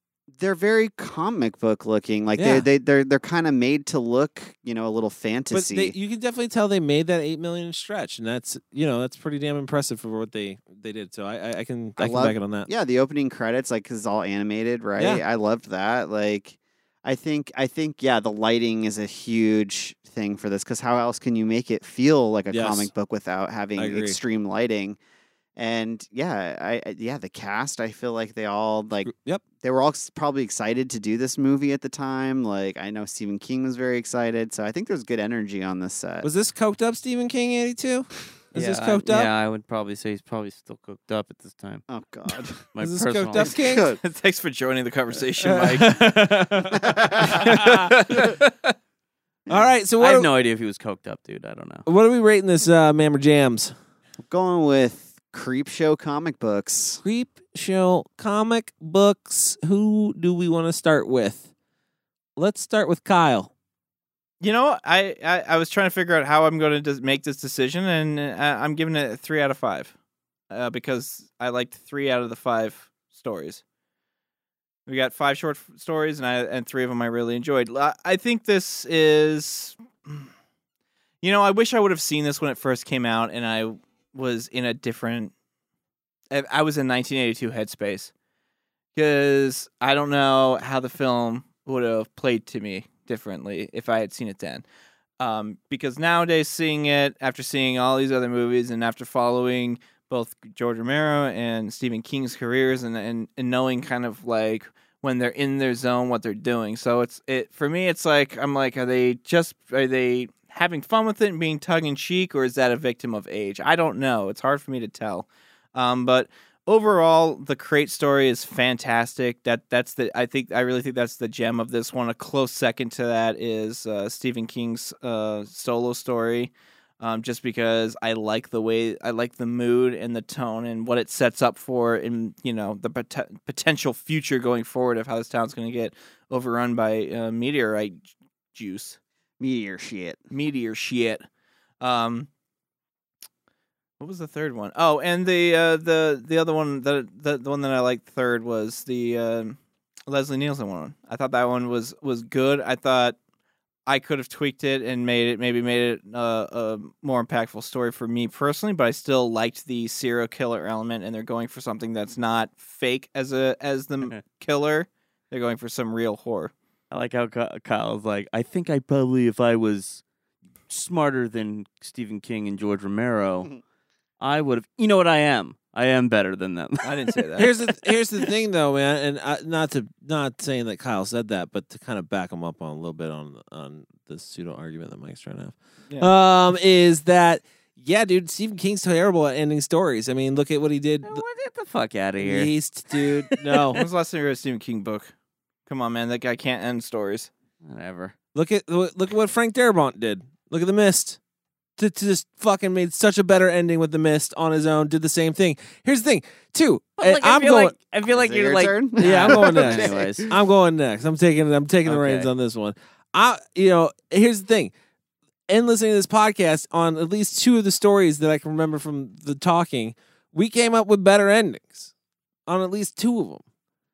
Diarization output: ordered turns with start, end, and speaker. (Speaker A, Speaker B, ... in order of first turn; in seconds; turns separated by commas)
Speaker A: 0.3-6.0, Speaker B: 2.4-2.7, Speaker B: 5.5-12.7, Speaker A: 12.0-25.0, Speaker B: 22.5-22.9, Speaker B: 23.8-24.2, Speaker A: 25.6-36.3, Speaker B: 29.1-29.4, Speaker B: 36.2-39.3, Speaker C: 38.6-41.8, Speaker A: 41.9-42.6, Speaker C: 42.7-43.5, Speaker B: 42.8-43.9, Speaker A: 43.4-44.0, Speaker D: 44.0-46.0, Speaker B: 45.4-48.3, Speaker A: 46.8-47.5, Speaker D: 47.3-48.7, Speaker B: 49.5-50.3, Speaker C: 50.0-51.9, Speaker B: 51.9-53.7, Speaker A: 54.3-57.0, Speaker B: 57.0-61.5, Speaker B: 62.4-63.5, Speaker D: 64.4-69.9, Speaker D: 70.5-73.6, Speaker D: 74.9-80.3, Speaker D: 81.2-85.3, Speaker D: 86.3-88.1, Speaker D: 89.0-94.7, Speaker D: 95.2-139.0, Speaker A: 139.4-140.2, Speaker D: 140.3-141.2, Speaker D: 141.8-142.3, Speaker D: 144.0-149.6, Speaker D: 150.1-153.2, Speaker D: 153.9-166.5, Speaker C: 166.9-170.0, Speaker C: 170.7-173.5, Speaker C: 174.2-176.9, Speaker D: 176.8-177.5, Speaker B: 177.4-191.2, Speaker C: 191.1-193.8, Speaker B: 192.2-193.8, Speaker D: 193.8-195.1, Speaker D: 195.7-197.3, Speaker C: 197.6-198.1, Speaker B: 198.3-201.2, Speaker B: 201.8-207.8, Speaker C: 207.0-210.3, Speaker A: 208.1-210.4, Speaker B: 209.0-214.7, Speaker C: 211.8-212.3, Speaker B: 215.5-221.9, Speaker B: 222.5-223.4